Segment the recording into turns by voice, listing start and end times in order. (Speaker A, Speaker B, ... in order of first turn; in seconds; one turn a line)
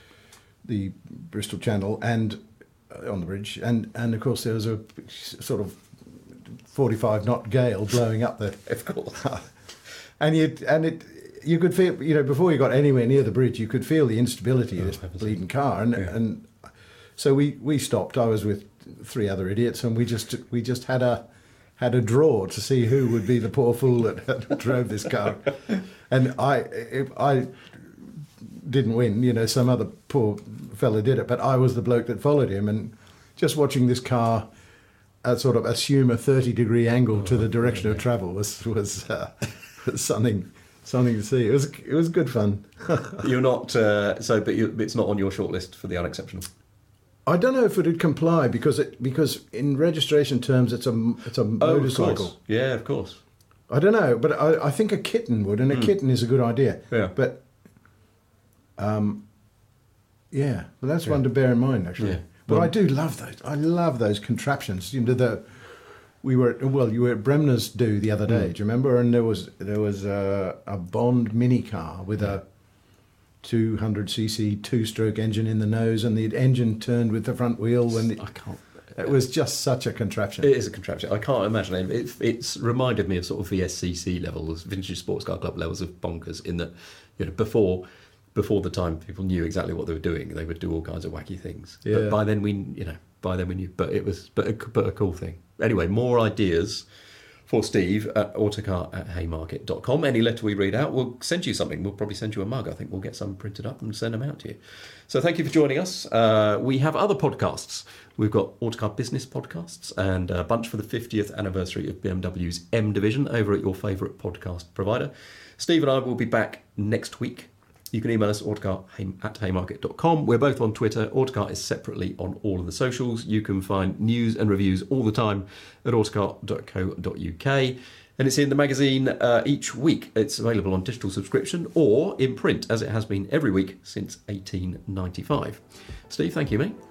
Speaker A: 0.6-9.5
Speaker B: 8.7-9.2
Speaker A: 10.2-16.6
Speaker B: 14.8-15.4
Speaker A: 17.2-21.2
Speaker A: 21.8-34.5
Speaker A: 35.2-43.3
Speaker B: 37.1-38.1
Speaker B: 43.2-46.5
Speaker A: 47.3-52.3
Speaker B: 51.6-53.2
Speaker A: 53.7-57.4
Speaker B: 56.9-57.1
Speaker A: 58.8-59.2
Speaker A: 60.3-72.4
Speaker B: 62.0-62.7
Speaker A: 73.4-78.4
Speaker B: 78.2-79.2
Speaker A: 79.0-80.5
Speaker B: 80.4-96.8
Speaker A: 91.8-92.2
Speaker B: 97.5-136.8